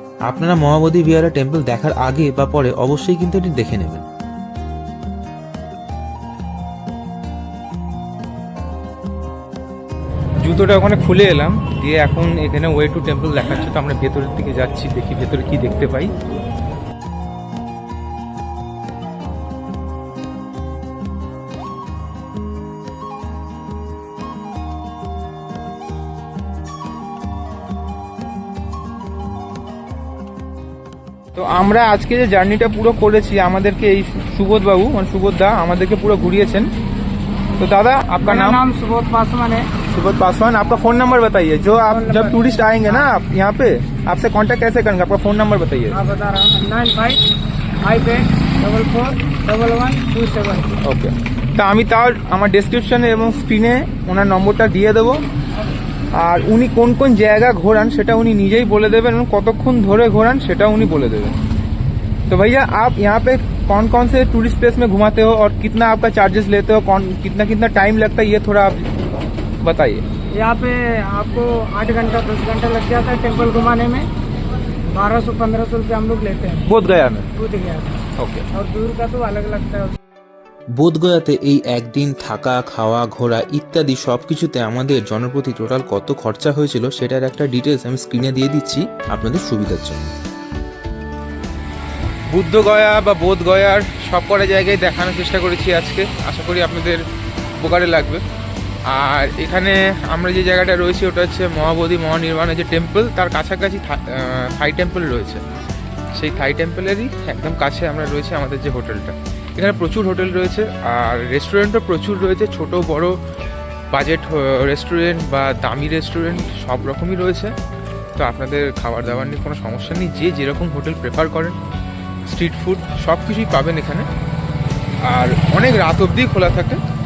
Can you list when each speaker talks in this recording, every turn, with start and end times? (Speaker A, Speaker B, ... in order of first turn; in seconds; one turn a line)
Speaker A: 0.3-4.0
Speaker B: 10.4-16.1
Speaker B: 31.3-36.7
Speaker B: 37.6-38.6
Speaker C: 38.2-39.7
Speaker B: 39.9-46.0
Speaker C: 41.9-43.1
Speaker C: 45.9-47.2
Speaker C: 47.8-50.7
Speaker B: 50.8-55.2
Speaker B: 56.2-61.4
Speaker B: 62.3-68.8
Speaker B: 69.6-70.0
Speaker C: 70.4-74.1
Speaker C: 74.9-76.7
Speaker B: 76.7-77.3
Speaker C: 77.3-79.9
Speaker B: 78.2-78.4
Speaker A: 80.8-90.1
Speaker B: 92.3-97.0
Speaker B: 97.6-98.2
Speaker B: 98.9-105.4
Speaker B: 106.1-113.2
Speaker B: 113.9-117.5
Speaker B: 118.2-121.6
Speaker B: 122.3-124.1
Speaker B: 125.1-126.8